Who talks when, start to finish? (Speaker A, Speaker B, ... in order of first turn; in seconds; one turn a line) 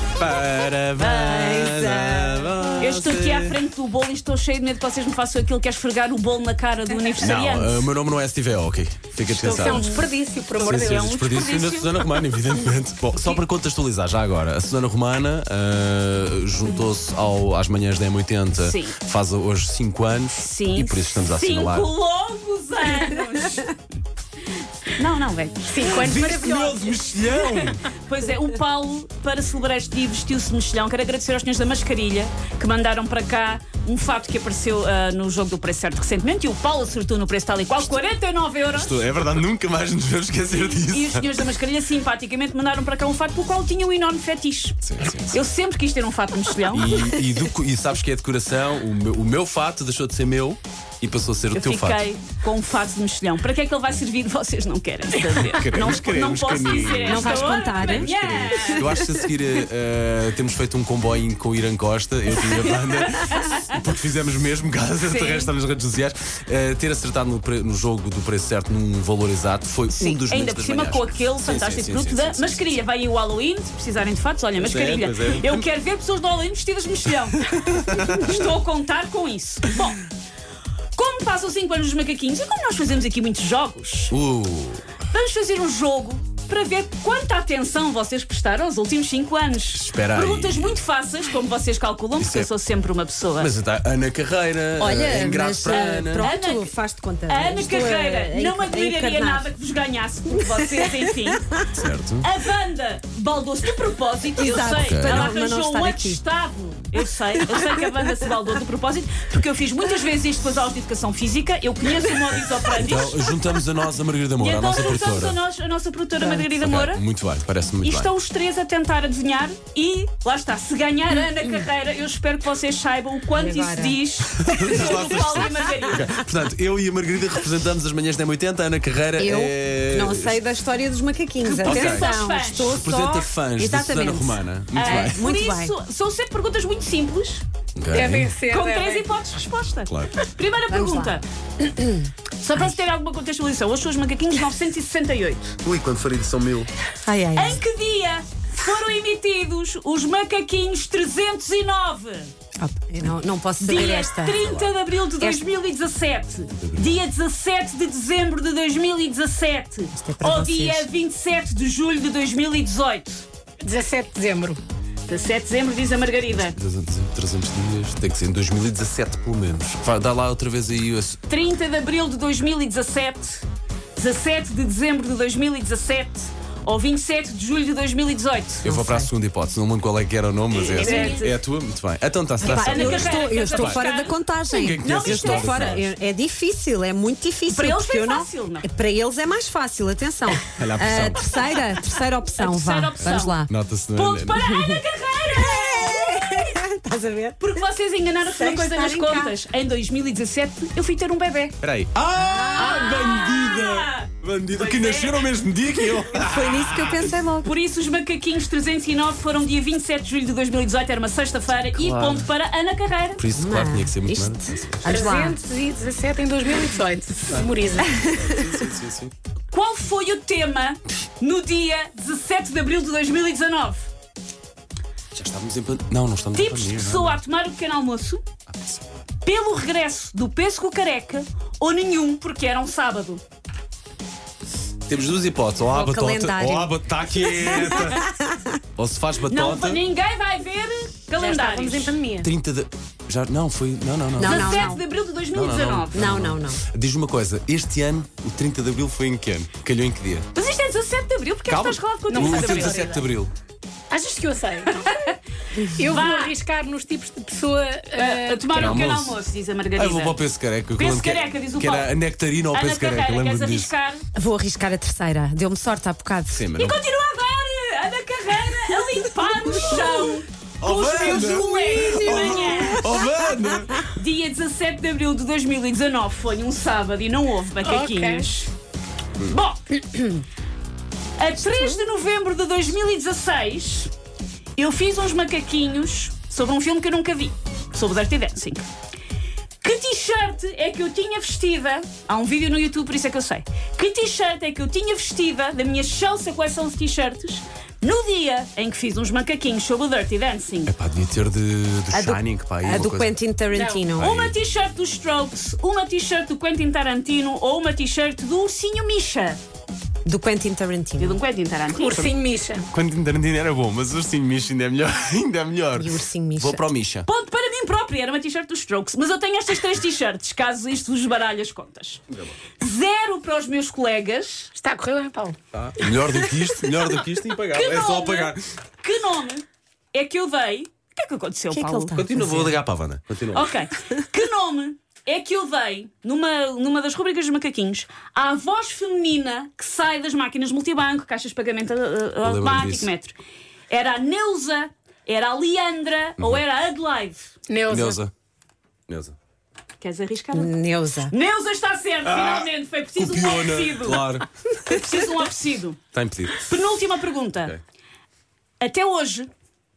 Speaker A: 0.2-3.6
Speaker B: 1.0-2.6
Speaker C: 2.8-7.9
Speaker A: 7.2-10.0
Speaker D: 9.3-11.1
Speaker C: 9.5-10.1
Speaker C: 10.6-12.0
Speaker A: 10.6-21.9
Speaker C: 13.2-13.4
Speaker C: 18.6-19.0
Speaker C: 20.4-23.8
Speaker C: 24.9-26.1
Speaker D: 25.7-26.9
Speaker A: 25.8-27.9
Speaker C: 27.9-39.0
Speaker A: 38.7-41.5
Speaker C: 40.5-47.0
Speaker A: 44.9-45.5
Speaker A: 46.7-52.0
Speaker C: 51.5-58.9
Speaker A: 55.4-72.8
Speaker B: 57.1-59.0
Speaker C: 62.6-63.8
Speaker C: 65.0-65.5
Speaker C: 70.0-80.0
Speaker A: 74.6-75.7
Speaker A: 77.5-78.4
Speaker C: 81.0-84.1
Speaker A: 84.1-84.9
Speaker C: 85.1-93.5
Speaker A: 89.7-90.8
Speaker A: 92.2-92.5
Speaker A: 93.4-96.3
Speaker B: 94.8-99.5
Speaker C: 95.7-96.7
Speaker C: 97.3-101.5
Speaker B: 100.3-101.7
Speaker A: 101.7-102.3
Speaker C: 102.2-113.3
Speaker B: 104.4-106.2
Speaker A: 104.8-105.3
Speaker B: 107.5-108.1
Speaker A: 112.8-115.4
Speaker C: 114.4-117.0
Speaker B: 116.2-116.5
Speaker A: 116.6-118.1
Speaker C: 117.8-126.2
Speaker B: 123.3-124.0
Speaker A: 124.3-130.5
Speaker B: 124.7-125.6
Speaker B: 129.2-135.8
Speaker C: 131.4-132.8
Speaker A: 131.6-135.2
Speaker C: 134.8-137.4
Speaker A: 137.8-138.3
Speaker D: 137.9-139.1
Speaker C: 138.5-141.2
Speaker A: 139.9-140.2
Speaker B: 140.7-142.8
Speaker C: 142.4-145.6
Speaker A: 145.6-146.7
Speaker B: 147.0-147.6
Speaker C: 147.4-152.3
Speaker B: 152.6-154.4
Speaker C: 153.6-163.2
Speaker A: 154.4-154.7
Speaker A: 156.6-157.0
Speaker B: 159.9-160.9
Speaker D: 163.6-164.6
Speaker C: 165.1-166.6
Speaker A: 166.3-171.2
Speaker C: 171.3-173.4
Speaker C: 174.0-178.7
Speaker A: 178.6-183.9
Speaker B: 178.7-179.1
Speaker C: 180.5-181.3
Speaker D: 180.8-181.2
Speaker B: 182.4-193.5
Speaker C: 182.4-185.8
Speaker A: 184.5-185.9
Speaker C: 187.5-188.7
Speaker A: 190.4-191.7
Speaker C: 192.4-193.4
Speaker A: 193.5-194.4
Speaker C: 193.9-196.6
Speaker B: 194.3-197.6
Speaker C: 197.4-201.6
Speaker B: 198.2-199.3
Speaker A: 201.6-207.1
Speaker B: 202.2-203.0
Speaker C: 202.5-205.3
Speaker B: 206.2-207.5
Speaker C: 207.4-213.2
Speaker A: 211.7-212.3
Speaker A: 213.2-214.9
Speaker B: 213.3-215.4
Speaker D: 214.9-218.2
Speaker A: 217.3-219.1
Speaker C: 219.5-223.9
Speaker A: 225.1-227.2
Speaker C: 226.3-228.2
Speaker A: 228.5-228.8
Speaker C: 229.2-233.2
Speaker A: 234.9-238.1
Speaker B: 235.7-238.6
Speaker A: 238.8-239.8
Speaker C: 239.3-241.9
Speaker D: 241.2-242.3
Speaker A: 242.2-244.7
Speaker B: 244.2-244.8
Speaker C: 244.2-246.0
Speaker A: 245.3-250.3
Speaker B: 245.9-246.6
Speaker C: 250.3-252.8
Speaker A: 251.5-253.3
Speaker D: 252.1-253.0
Speaker D: 253.9-254.9
Speaker C: 254.8-255.2
Speaker D: 255.7-258.7
Speaker C: 255.8-256.4
Speaker C: 258.0-260.2
Speaker A: 258.5-259.2
Speaker A: 259.8-263.7
Speaker C: 260.8-261.9
Speaker C: 262.5-264.0
Speaker B: 264.1-266.5
Speaker A: 266.3-266.8
Speaker C: 266.6-273.1
Speaker B: 269.6-270.2
Speaker A: 270.6-273.9
Speaker B: 272.2-273.4
Speaker C: 273.8-278.5
Speaker D: 277.6-278.3
Speaker C: 279.2-279.8
Speaker C: 281.2-283.9
Speaker C: 284.6-288.7
Speaker C: 289.6-300.7
Speaker A: 300.7-303.1
Speaker B: 301.9-304.1
Speaker D: 303.5-303.8
Speaker A: 304.0-304.4
Speaker C: 304.0-309.4
Speaker B: 310.1-311.2
Speaker C: 311.0-312.1
Speaker D: 311.8-312.7
Speaker A: 312.7-317.1
Speaker B: 315.7-316.6
Speaker C: 317.1-322.0
Speaker C: 322.6-324.5
Speaker D: 324.6-325.4
Speaker A: 325.5-328.4
Speaker C: 327.5-332.0
Speaker B: 331.5-332.5
Speaker A: 332.0-333.5
Speaker C: 333.3-343.2
Speaker A: 342.2-342.9
Speaker C: 343.7-347.3
Speaker D: 347.5-348.0
Speaker A: 347.7-348.1
Speaker A: 348.9-349.1
Speaker C: 349.8-350.5
Speaker B: 350.3-351.1
Speaker C: 351.1-354.2
Speaker A: 352.1-354.3
Speaker C: 354.7-355.8
Speaker A: 355.9-356.5
Speaker C: 356.4-357.6
Speaker C: 358.6-359.3